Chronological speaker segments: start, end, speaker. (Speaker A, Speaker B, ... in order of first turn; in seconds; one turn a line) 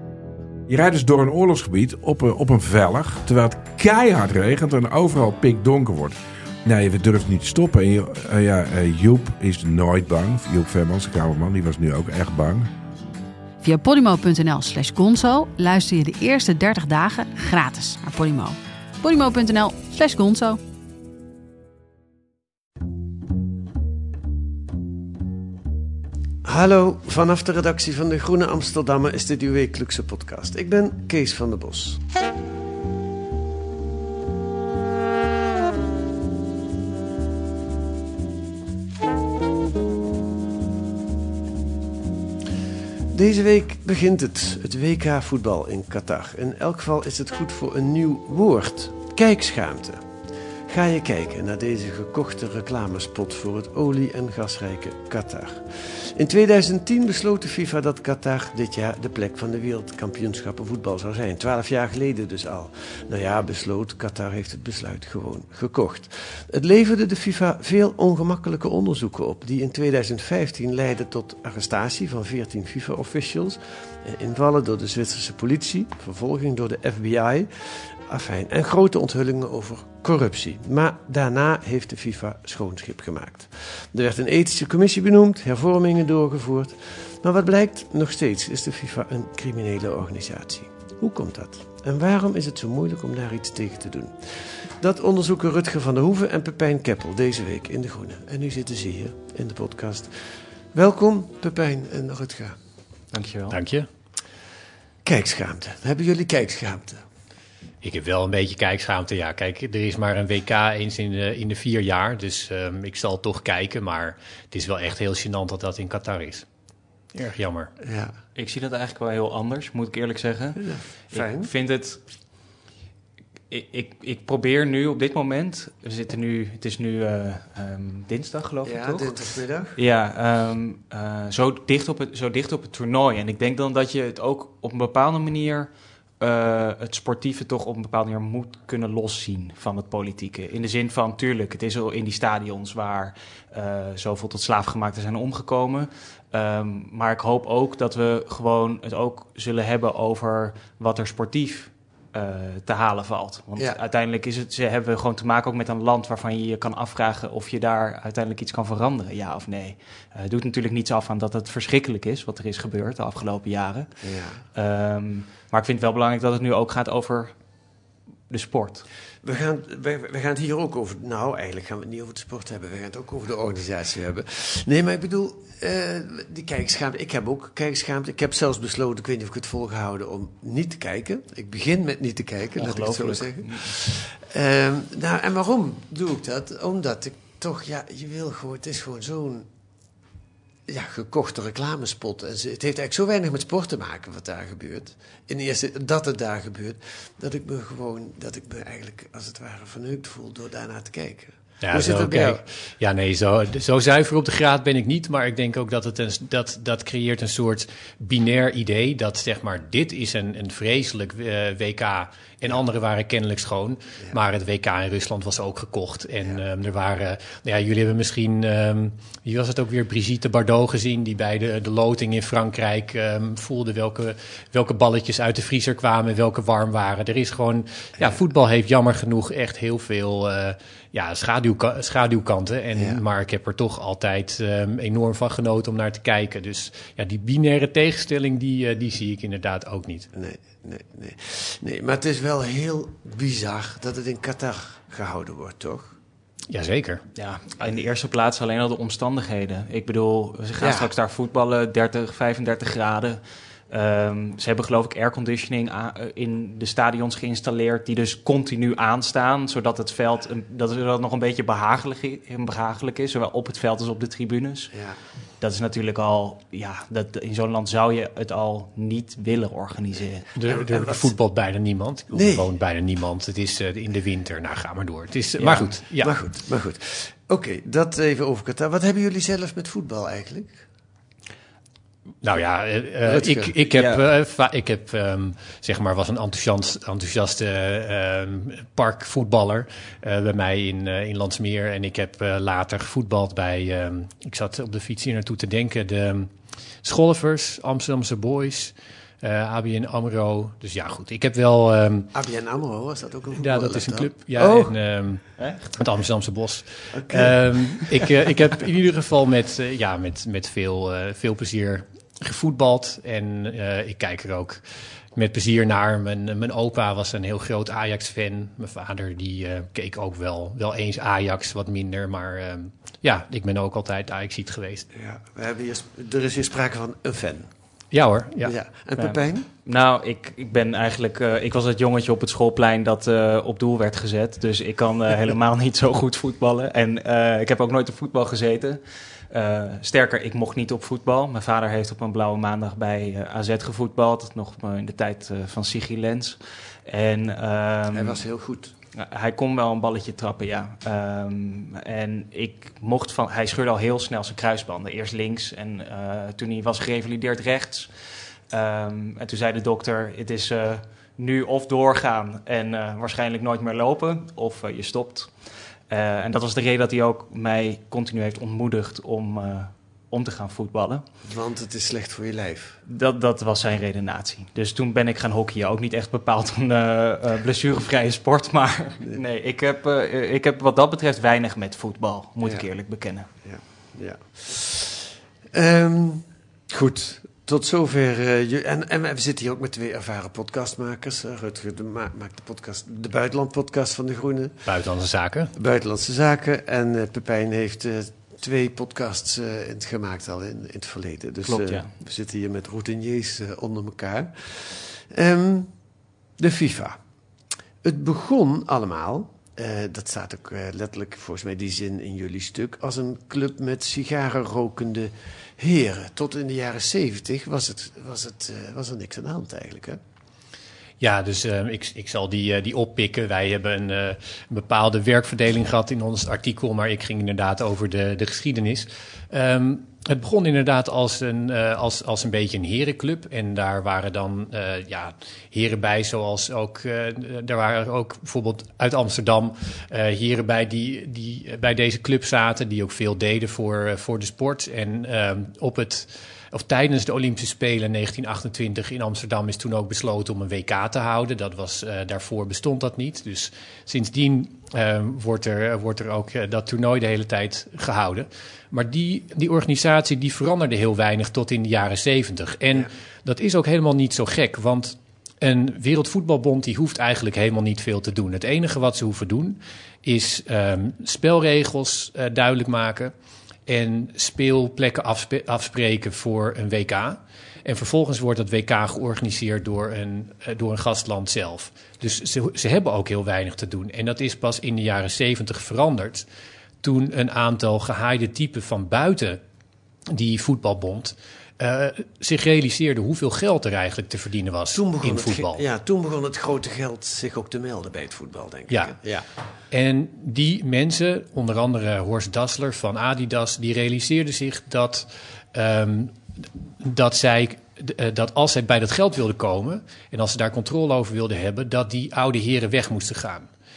Speaker A: 0.7-12.7
Speaker B: 13.6-20.6
Speaker C: 26.4-32.0
Speaker C: 43.1-50.0
Speaker C: 50.7-100.1
Speaker C: 100.7-102.5
Speaker D: 103.1-103.6
Speaker E: 103.5-103.9
Speaker C: 105.0-107.0
Speaker E: 107.8-116.5
Speaker E: 117.1-117.7
Speaker C: 117.8-118.1
Speaker D: 118.3-122.0
Speaker C: 120.5-121.5
Speaker D: 123.5-129.1
Speaker C: 128.6-129.8
Speaker D: 129.8-135.7
Speaker D: 136.2-163.9
Speaker C: 164.0-164.4
Speaker D: 164.5-167.3
Speaker D: 168.3-168.8
Speaker C: 169.2-189.5
Speaker D: 182.6-183.7
Speaker C: 190.7-202.4
Speaker E: 201.6-240.1
Speaker C: 232.8-233.0
Speaker C: 240.1-245.9
Speaker E: 246.5-247.0
Speaker D: 247.2-264.7
Speaker C: 250.6-250.9
Speaker C: 264.7-265.0
Speaker D: 265.4-270.3
Speaker E: 270.4-276.2
Speaker C: 270.4-271.1
Speaker C: 272.1-272.5
Speaker D: 275.4-275.7
Speaker C: 276.0-280.6
Speaker E: 282.2-296.3
Speaker C: 283.0-283.5
Speaker D: 283.7-284.0
Speaker E: 296.8-302.1
Speaker C: 302.1-304.7
Speaker E: 303.3-314.6
Speaker C: 306.9-308.0
Speaker E: 315.1-324.9
Speaker C: 324.9-327.5
Speaker E: 327.9-328.6
Speaker C: 328.4-329.5
Speaker D: 329.0-348.2
Speaker C: 347.9-348.7
Speaker D: 348.9-357.9
Speaker D: 358.5-365.3
Speaker D: 365.9-371.0
Speaker C: 371.2-372.8
Speaker D: 372.9-383.3
Speaker C: 383.4-394.6
Speaker E: 394.6-395.5
Speaker C: 395.6-405.7
Speaker D: 401.4-401.9
Speaker C: 406.4-407.0
Speaker C: 407.8-420.0
Speaker E: 421.0-473.1
Speaker E: 473.7-486.2
Speaker E: 486.8-489.4
Speaker E: 490.1-495.6
Speaker C: 494.7-499.2
Speaker E: 498.7-498.9
Speaker E: 499.7-513.5